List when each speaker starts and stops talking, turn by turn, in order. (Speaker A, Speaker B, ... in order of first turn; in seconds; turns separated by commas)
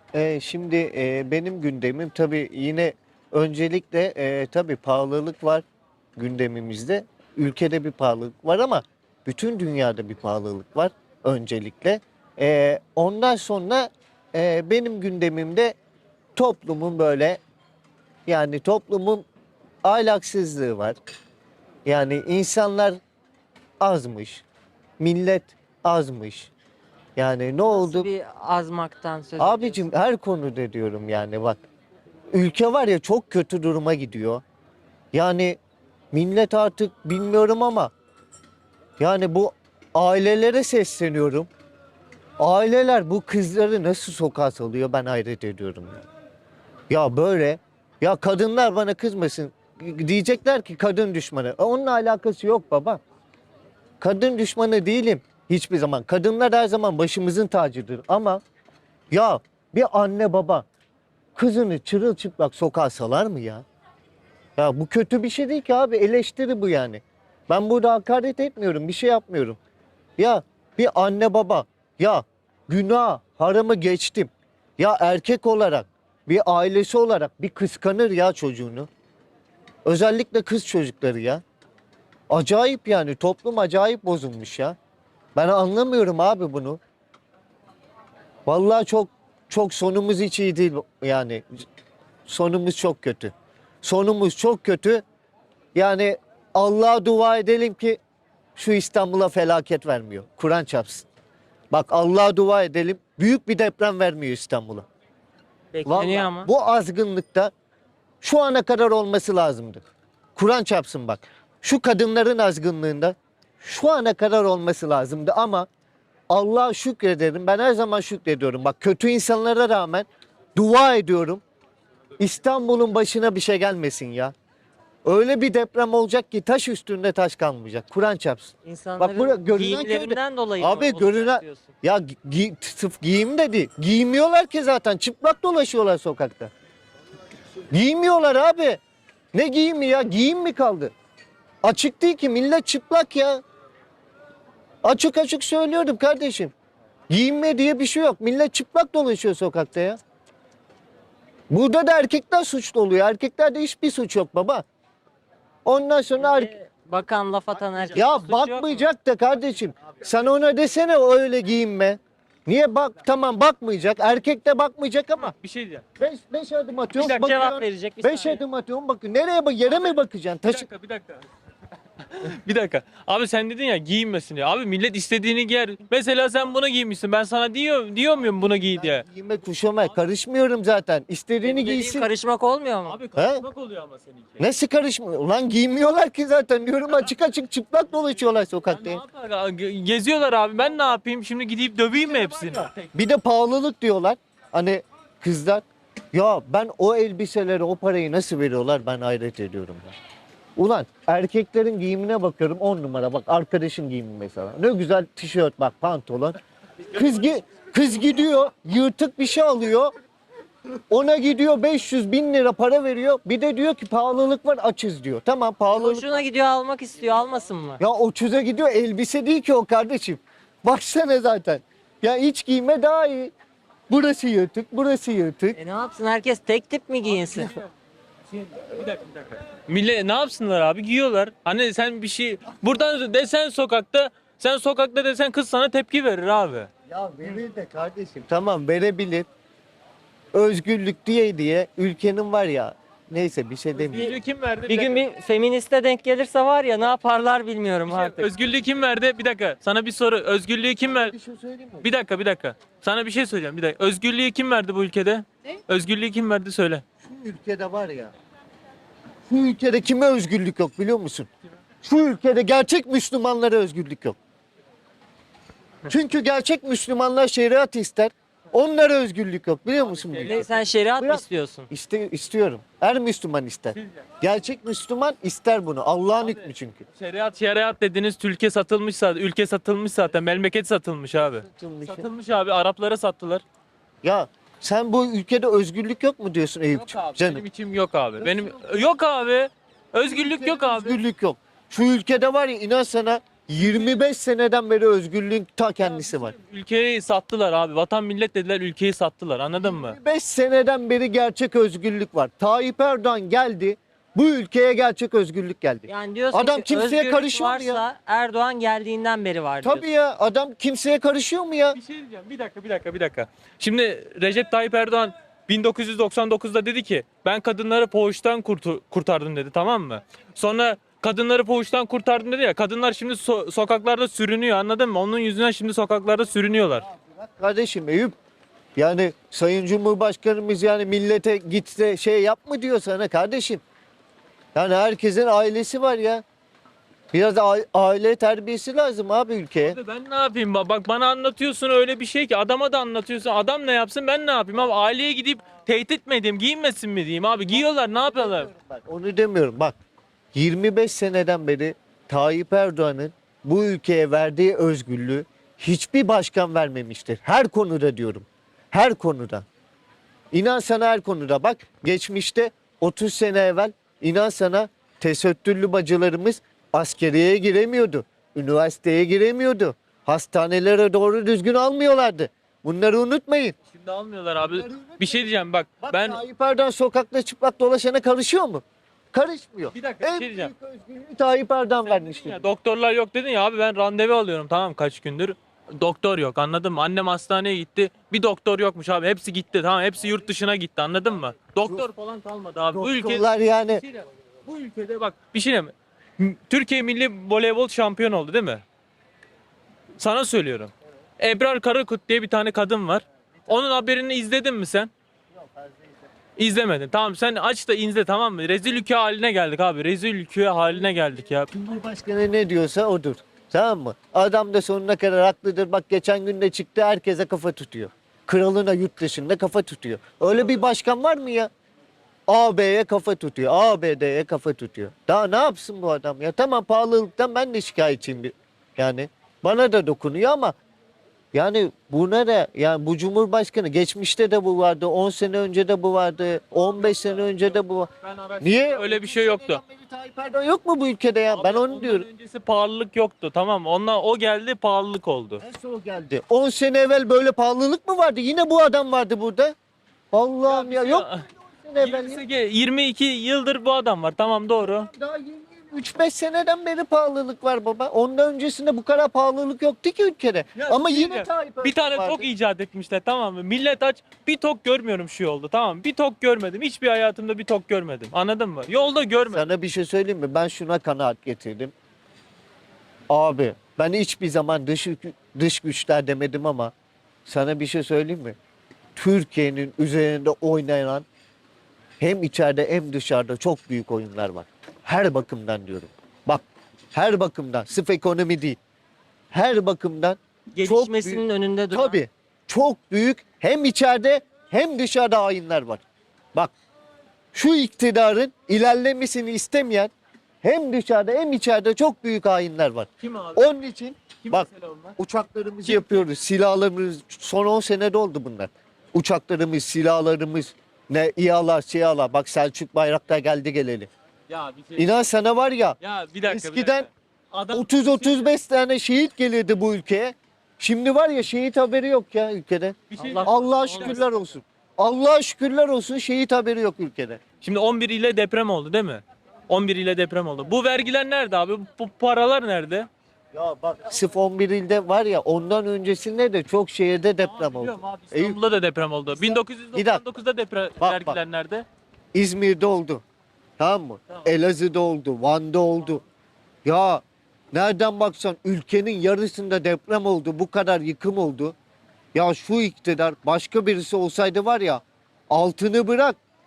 Speaker A: 0.1-5.6, Speaker A: 6.2-15.8, Speaker A: 16.4-17.4, Speaker A: 18.3-19.3, Speaker A: 19.8-21.0, Speaker A: 21.9-23.0, Speaker A: 23.8-24.4, Speaker A: 25.0-26.5, Speaker A: 27.2-28.1, Speaker B: 27.7-29.8, Speaker A: 29.4-31.6, Speaker A: 32.3-34.4, Speaker A: 35.1-35.6, Speaker A: 36.1-37.9, Speaker A: 39.0-41.5, Speaker A: 42.4-46.0, Speaker A: 46.9-53.0, Speaker A: 54.0-58.4, Speaker A: 59.1-60.7, Speaker A: 61.4-63.6, Speaker A: 64.6-69.6, Speaker A: 70.2-78.9, Speaker A: 79.9-81.4, Speaker A: 82.3-84.8, Speaker A: 85.3-86.8, Speaker A: 88.5-91.7, Speaker A: 92.3-95.0, Speaker A: 95.8-98.0, Speaker A: 98.6-101.1, Speaker A: 101.7-104.9, Speaker B: 105.7-106.5, Speaker A: 105.9-107.5, Speaker A: 108.2-109.8, Speaker A: 110.4-115.7, Speaker A: 116.3-121.4, Speaker A: 122.2-124.3, Speaker A: 125.0-136.5, Speaker B: 128.7-131.7, Speaker A: 137.7-138.8, Speaker A: 139.3-140.9, Speaker A: 141.6-143.4, Speaker A: 144.8-146.5, Speaker A: 147.1-150.0, Speaker A: 151.5-154.6, Speaker A: 155.7-156.5, Speaker B: 156.2-158.9, Speaker A: 157.9-165.3, Speaker C: 165.2-165.8, Speaker A: 166.0-170.7, Speaker B: 167.0-168.4, Speaker C: 170.5-171.2, Speaker C: 172.1-179.1, Speaker A: 178.4-182.1, Speaker B: 181.4-183.0, Speaker C: 182.9-184.4, Speaker A: 183.2-183.5, Speaker A: 184.4-189.0, Speaker C: 188.7-192.9, Speaker A: 192.1-199.9, Speaker A: 200.6-206.4, Speaker A: 206.9-209.9, Speaker A: 210.9-216.2, Speaker B: 215.7-217.8, Speaker A: 217.8-223.3, Speaker A: 223.9-225.6, Speaker B: 225.6-227.5, Speaker C: 228.8-236.7, Speaker A: 236.9-239.3, Speaker A: 240.3-244.2, Speaker C: 243.8-245.0, Speaker B: 244.7-248.3, Speaker C: 247.9-251.2, Speaker A: 250.8-251.9, Speaker C: 251.8-256.8, Speaker A: 257.0-258.1, Speaker A: 259.3-261.3, Speaker A: 261.8-264.2, Speaker A: 265.9-276.9, Speaker C: 269.8-270.7, Speaker B: 270.2-271.7, Speaker C: 276.3-283.4, Speaker A: 281.2-282.1, Speaker A: 284.0-287.4, Speaker C: 286.8-291.0, Speaker A: 288.2-288.9, Speaker A: 290.0-296.3, Speaker C: 295.8-300.0, Speaker A: 299.6-307.8, Speaker B: 305.9-309.9, Speaker A: 309.6-311.8, Speaker C: 311.8-326.9, Speaker A: 326.9-328.2, Speaker A: 328.8-333.6, Speaker A: 334.6-336.2, Speaker A: 337.1-339.8, Speaker C: 339.6-348.5, Speaker A: 347.7-349.8, Speaker A: 350.3-359.4, Speaker A: 360.3-373.6, Speaker C: 373.7-376.2, Speaker A: 374.4-375.3, Speaker A: 375.8-382.4, Speaker C: 379.7-380.5, Speaker C: 381.8-393.2, Speaker A: 392.7-393.8, Speaker C: 393.9-398.6, Speaker C: 400.0-404.9, Speaker A: 405.4-405.9, Speaker C: 406.4-411.5, Speaker A: 411.5-421.5, Speaker A: 422.3-430.6, Speaker A: 431.3-437.9, Speaker C: 438.0-439.6, Speaker A: 438.4-442.1, Speaker C: 441.3-445.4, Speaker A: 445.4-449.6, Speaker A: 450.1-452.2, Speaker C: 450.4-451.3, Speaker C: 451.8-454.9, Speaker A: 454.6-462.3, Speaker C: 460.6-469.5, Speaker A: 469.3-471.7, Speaker A: 473.1-476.7, Speaker A: 477.3-478.4, Speaker A: 479.0-481.1, Speaker A: 482.0-488.6, Speaker A: 489.3-495.8, Speaker B: 490.6-492.0, Speaker A: 497.3-499.9, Speaker A: 500.4-504.5, Speaker C: 503.0-503.4, Speaker C: 504.2-505.0, Speaker A: 505.0-513.9, Speaker C: 505.6-506.0, Speaker C: 514.3-514.8, Speaker A: 514.8-516.9, Speaker C: 515.8-518.3, Speaker A: 517.5-527.2, Speaker C: 522.9-524.0, Speaker B: 523.0-524.0, Speaker C: 527.4-532.9, Speaker A: 533.3-538.4, Speaker C: 537.2-541.6, Speaker A: 539.2-540.0, Speaker A: 540.8-541.2, Speaker A: 542.1-543.0, Speaker A: 543.6-546.0, Speaker A: 546.6-551.5, Speaker A: 552.1-556.2